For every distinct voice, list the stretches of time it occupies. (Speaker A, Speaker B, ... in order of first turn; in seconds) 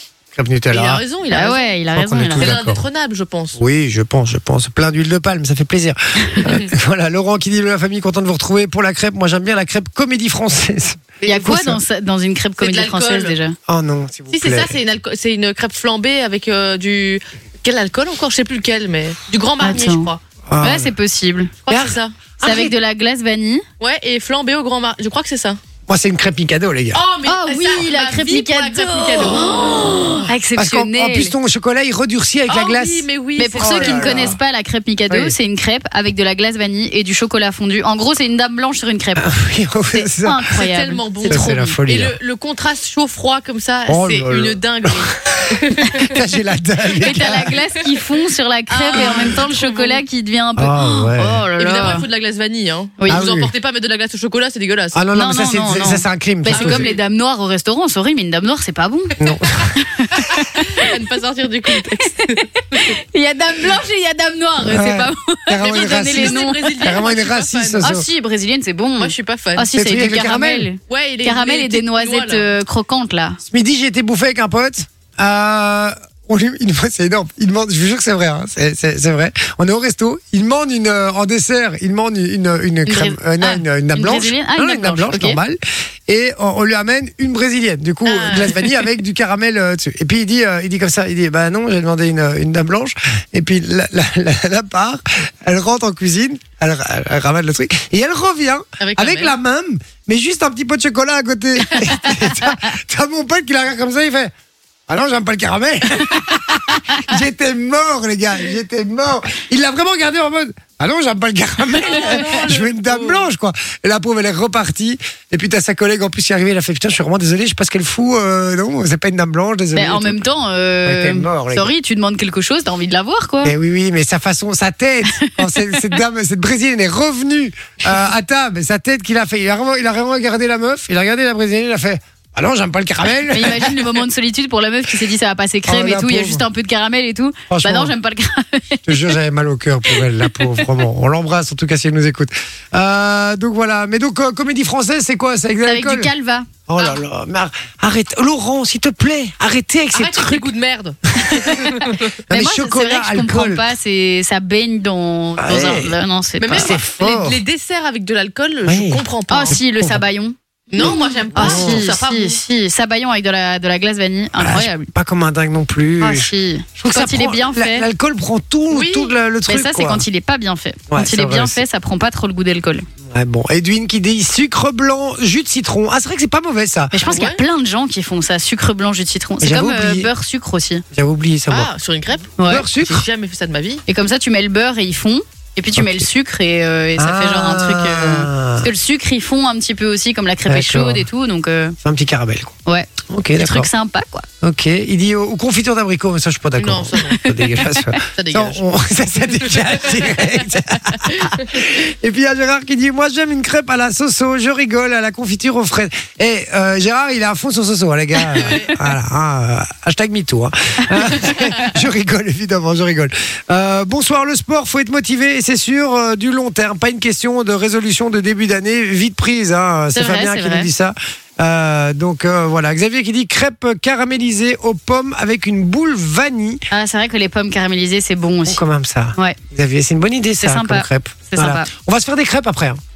Speaker A: 0.3-1.0, 1.9-2.8, 3.5-11.8, 13.7-14.8, 20.5-20.9, 21.7-22.7, 25.9-27.0, 29.7-34.4, 35.1-35.3, 39.2-40.5, 41.2-42.1, 43.9-47.5, 49.0-49.3, 50.6-51.4, 53.1-53.5, 54.9-56.9, 59.2-59.7, 64.6-68.0, 69.7-70.7, 73.4-104.3, 104.9-120.2, 120.8-121.7, 123.4-133.8, 135.7-136.4, 137.5-137.9, 138.8-146.1, 146.7-150.5, 151.2-151.5, 152.3-153.7, 155.4-156.0, 156.5-157.4, 158.6-160.0, 160.8-161.9, 164.4-170.1, 170.9-171.6, 173.1-176.9, 179.4-180.1, 180.9-181.7, 182.4-183.0, 185.8-186.1, 187.0-188.7, 190.4-191.1, 191.8-193.7, 194.4-226.6, 228.4-232.8
Speaker B: 0.7-1.8, 2.3-3.6, 12.6-13.3, 14.3-20.2, 21.6-22.2, 23.8-25.6, 26.9-29.8, 32.5-34.4, 40.5-46.1, 47.1-47.5, 48.7-50.0, 51.6-55.0, 56.5-57.0, 60.5-62.9, 65.6-67.9, 69.0-69.7, 70.9-72.5, 88.0-88.7, 98.8-99.3, 111.8-113.3, 149.9-152.2, 156.4-159.6, 160.7-162.4, 168.7-169.1, 177.1-177.4, 181.5-183.8, 196.6-197.2, 198.1-198.6, 199.6-200.0, 208.3-208.8
Speaker C: 1.3-2.5, 11.2-13.6, 19.6-21.5, 22.4-23.6, 27.2-31.3, 33.4-39.3, 39.9-41.8, 47.0-52.0, 55.1-59.1, 59.7-60.9, 61.7-67.0, 67.8-73.4, 82.8-85.4, 102.1-102.6, 119.7-123.5, 125.1-125.9, 133.3-139.1, 139.9-140.6, 145.6-146.5, 151.4-151.7, 152.3-156.8, 159.3-164.9, 166.0-167.9, 169.5-172.8, 176.9-180.8, 182.4-182.7, 183.9-191.8, 192.7-194.3, 197.3-198.0, 219.9-220.7, 226.7-228.6, 230.4-231.7